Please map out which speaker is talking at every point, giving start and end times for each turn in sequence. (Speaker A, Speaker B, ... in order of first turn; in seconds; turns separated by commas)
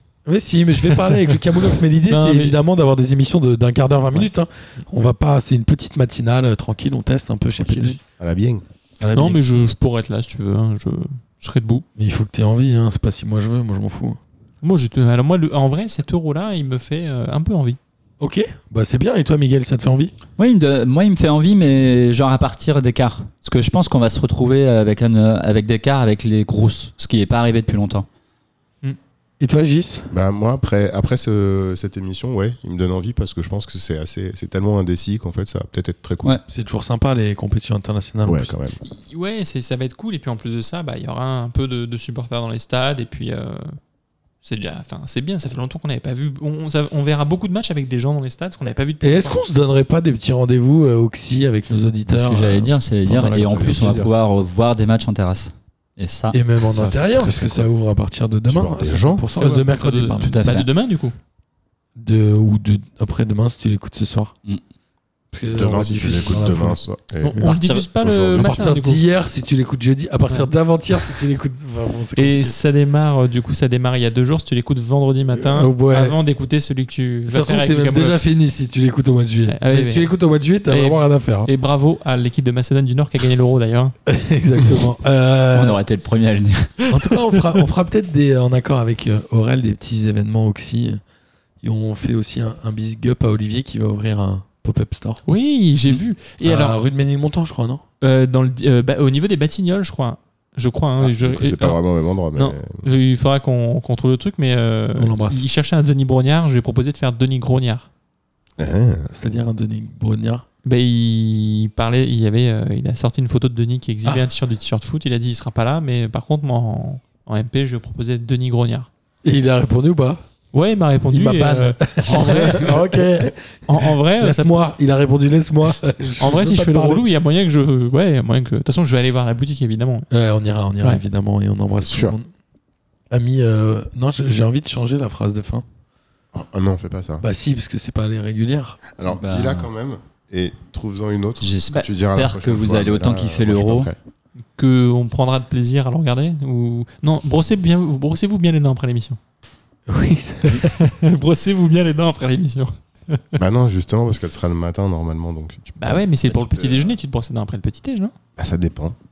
Speaker A: 0.3-8.0, Speaker B: 1.0-1.3, Speaker B: 2.1-2.6, Speaker C: 7.6-8.7, Speaker A: 9.0-9.4, Speaker B: 9.1-11.8, Speaker A: 12.0-14.2, Speaker B: 14.6-17.8, Speaker A: 18.2-20.1, Speaker D: 20.4-28.1, Speaker A: 29.4-30.1, Speaker C: 30.1-36.4, Speaker A: 36.5-38.5, Speaker C: 38.3-38.8, Speaker B: 38.8-43.8, Speaker B: 44.4-49.4, Speaker A: 49.0-54.0, Speaker D: 52.1-56.4, Speaker C: 53.1-54.2, Speaker A: 56.3-60.4, Speaker C: 56.6-57.7, Speaker C: 58.5-59.3, Speaker B: 59.3-61.1, Speaker D: 60.2-60.7, Speaker A: 62.0-64.3, Speaker A: 65.3-67.5, Speaker C: 65.5-67.5, Speaker B: 67.2-69.0, Speaker D: 67.4-67.9, Speaker C: 68.0-68.8, Speaker A: 68.3-72.5, Speaker B: 72.2-78.2, Speaker A: 75.4-76.2, Speaker A: 77.3-81.5, Speaker B: 79.5-80.1, Speaker B: 80.7-84.0, Speaker A: 84.1-85.8, Speaker D: 85.5-86.9, Speaker A: 86.9-91.0, Speaker A: 91.6-95.2, Speaker B: 95.3-96.8, Speaker A: 96.4-97.8, Speaker B: 98.0-101.8, Speaker C: 101.0-102.8, Speaker B: 102.3-107.9, Speaker A: 105.0-105.5, Speaker C: 108.6-109.1, Speaker A: 109.1-110.5, Speaker B: 110.7-118.9, Speaker A: 119.2-120.2, Speaker B: 120.5-122.8, Speaker A: 121.1-127.0, Speaker B: 123.7-124.7, Speaker B: 126.2-130.1, Speaker A: 130.1-132.3, Speaker C: 131.8-132.2, Speaker A: 133.1-135.7, Speaker C: 136.3-137.2, Speaker A: 137.2-138.8, Speaker C: 138.9-144.0, Speaker D: 139.1-139.7, Speaker D: 141.4-143.9, Speaker B: 144.6-149.2, Speaker A: 149.9-150.7, Speaker B: 150.4-153.3, Speaker C: 153.4-157.0, Speaker B: 155.8-158.2, Speaker C: 158.4-159.0